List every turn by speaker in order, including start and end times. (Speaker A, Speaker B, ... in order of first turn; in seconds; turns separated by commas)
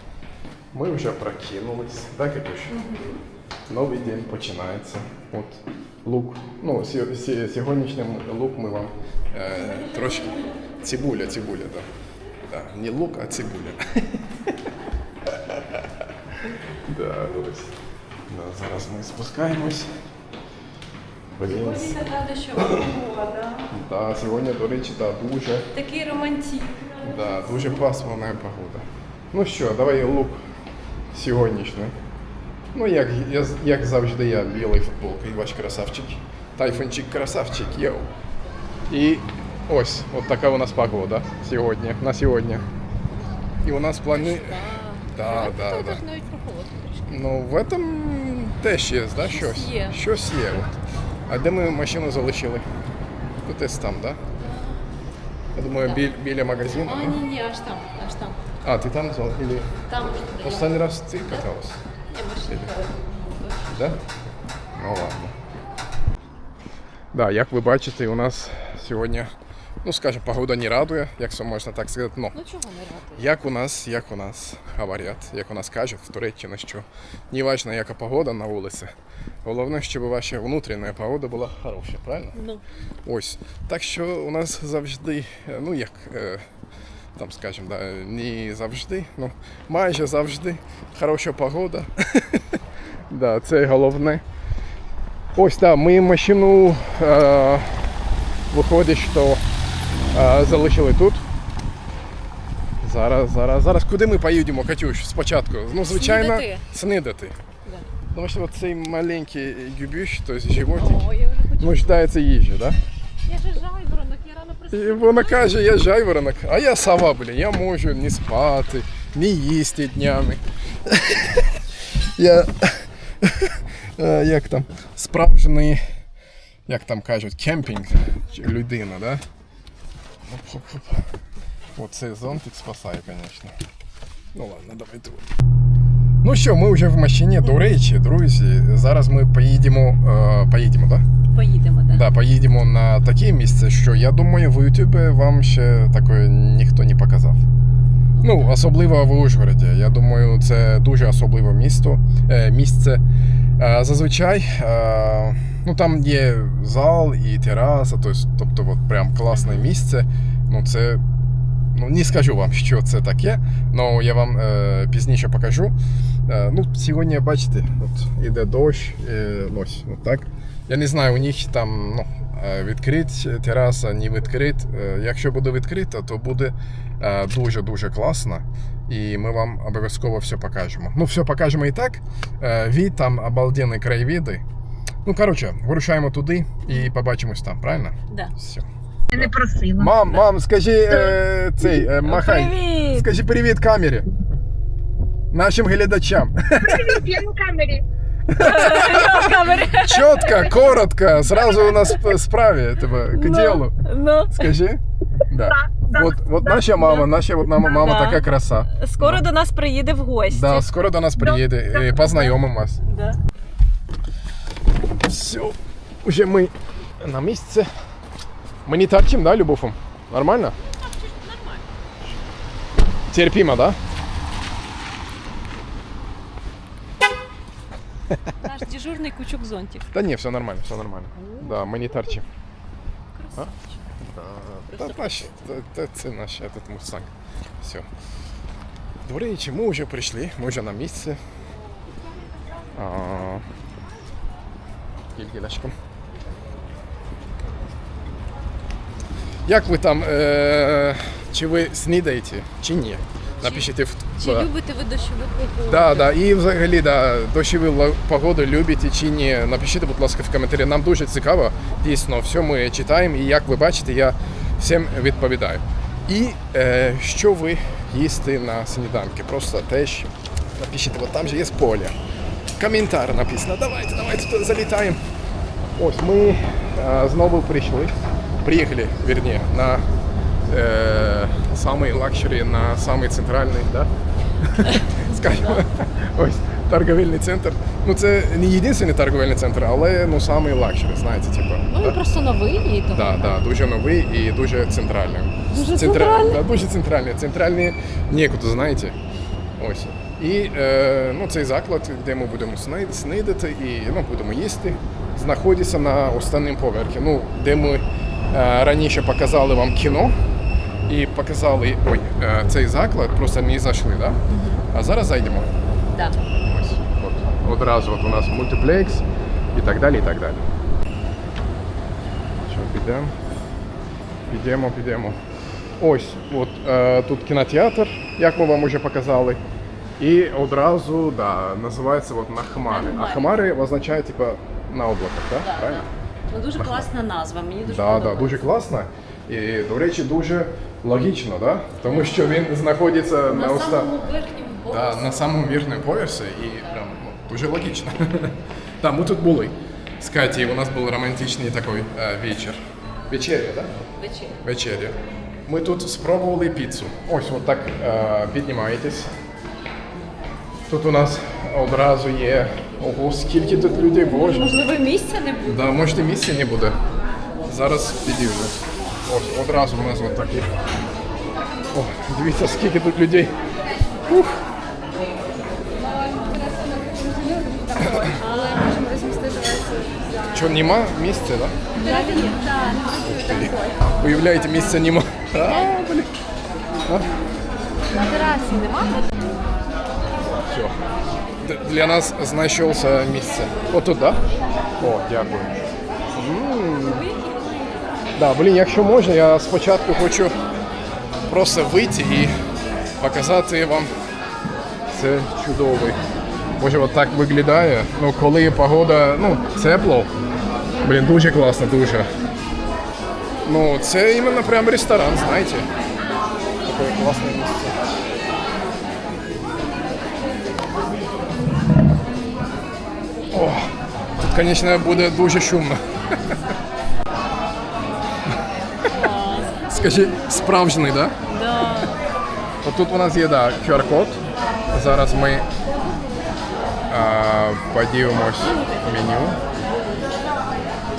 Speaker A: 0.7-2.8, Speaker B: 2.7-3.1, Speaker A: 3.7-11.8, Speaker A: 12.5-14.5, Speaker A: 15.3-15.9, Speaker A: 16.9-17.7, Speaker A: 18.3-20.0, Speaker A: 21.3-21.9, Speaker B: 21.4-23.7, Speaker A: 23.7-25.7, Speaker B: 25.7-27.8, Speaker A: 27.0-30.4, Speaker A: 31.1-31.9, Speaker A: 32.7-38.1, Speaker A: 38.9-42.6, Speaker A: 43.6-44.6, Speaker B: 44.1-47.1, Speaker A: 45.1-46.0, Speaker A: 47.1-50.7, Speaker B: 49.1-50.0, Speaker A: 51.3-52.6, Speaker A: 53.4-54.2, Speaker B: 54.4-54.8, Speaker A: 55.5-57.2, Speaker B: 55.8-56.0, Speaker B: 56.8-58.4, Speaker A: 58.6-61.8, Speaker B: 59.9-61.5, Speaker B: 62.1-63.9, Speaker A: 63.7-64.1, Speaker A: 64.7-65.3, Speaker A: 67.1-69.3, Speaker A: 69.8-72.3, Speaker B: 72.3-73.2, Speaker A: 73.2-78.9, Speaker A: 79.4-82.4, Speaker B: 82.3-82.6, Speaker A: 83.0-86.4, Speaker A: 87.2-94.2, Speaker A: 95.3-97.9, Speaker A: 98.5-99.4, Speaker A: 100.1-101.2, Speaker A: 102.8-107.3, Speaker B: 105.8-106.6, Speaker A: 108.1-111.0, Speaker B: 110.8-112.0, Speaker A: 111.6-112.8, Speaker B: 113.3-115.5, Speaker A: 114.7-125.8, Speaker A: 126.7-129.2, Speaker A: 130.2-131.1, Speaker A: 131.7-133.5, Speaker A: 134.3-135.2, Speaker A: 136.2-141.0, Speaker B: 141.3-142.1, Speaker A: 141.9-147.4, Speaker B: 148.2-148.5, Speaker A: 148.2-153.0, Speaker A: 153.6-161.0, Speaker B: 159.3-159.7, Speaker A: 161.7-165.7, Speaker A: 166.3-184.4, Speaker A: 185.0-194.1, Speaker C: 189.2-189.9, Speaker B: 191.9-193.1, Speaker A: 195.3-197.1, Speaker C: 196.9-197.8, Speaker A: 198.3-209.2, Speaker B: 198.3-200.6, Speaker B: 201.8-202.0, Speaker B: 203.1-204.5, Speaker B: 206.8-210.6, Speaker A: 210.3-212.8, Speaker B: 212.9-213.2, Speaker A: 215.0-217.7, Speaker A: 218.7-220.5, Speaker B: 220.7-221.6, Speaker A: 223.1-223.8, Speaker B: 228.4-229.8, Speaker A: 229.9-232.2, Speaker B: 231.2-231.6, Speaker B: 233.1-233.8, Speaker A: 233.3-237.1, Speaker B: 234.7-235.2, Speaker A: 237.6-237.8, Speaker A: 239.0-241.2, Speaker A: 242.7-243.4, Speaker A: 245.1-245.7, Speaker A: 249.4-254.5, Speaker B: 253.4-256.1, Speaker A: 255.7-271.9, Speaker A: 272.6-275.0, Speaker A: 275.8-279.8, Speaker A: 280.5-292.0, Speaker B: 284.6-285.6, Speaker B: 291.7-293.3, Speaker A: 292.9-298.9, Speaker B: 295.5-296.4, Speaker A: 299.6-310.1, Speaker A: 310.9-314.2, Speaker B: 314.3-314.6, Speaker A: 314.7-315.5, Speaker A: 316.2-320.4, Speaker A: 322.4-323.1, Speaker A: 324.3-325.2, Speaker A: 325.8-329.4, Speaker A: 330.0-335.9, Speaker B: 332.6-333.3, Speaker B: 335.4-338.4, Speaker A: 336.6-336.9, Speaker A: 337.6-343.9, Speaker B: 341.9-342.2, Speaker B: 343.3-345.2, Speaker A: 344.7-353.7, Speaker B: 354.0-354.4, Speaker A: 354.4-359.1, Speaker A: 360.7-364.6, Speaker B: 363.7-365.6, Speaker A: 365.4-366.8, Speaker A: 367.5-370.5, Speaker A: 371.7-373.3, Speaker A: 374.0-374.4, Speaker C: 375.9-380.3, Speaker B: 377.7-379.1, Speaker A: 377.8-378.2, Speaker A: 380.3-381.5, Speaker B: 381.8-383.7, Speaker C: 381.8-382.9, Speaker A: 383.0-386.1, Speaker B: 387.9-389.1, Speaker A: 390.2-390.8, Speaker A: 391.4-394.2, Speaker A: 394.8-397.0, Speaker B: 396.8-398.0, Speaker A: 398.1-400.4, Speaker A: 401.3-402.3, Speaker A: 403.0-403.9, Speaker A: 404.9-406.0, Speaker A: 406.6-410.1, Speaker A: 410.8-412.1, Speaker A: 413.4-415.6, Speaker A: 416.6-417.8, Speaker A: 423.3-423.7, Speaker A: 424.2-426.5, Speaker B: 428.8-429.7, Speaker A: 429.7-431.1, Speaker B: 431.3-431.9, Speaker A: 432.6-435.4, Speaker A: 436.9-439.4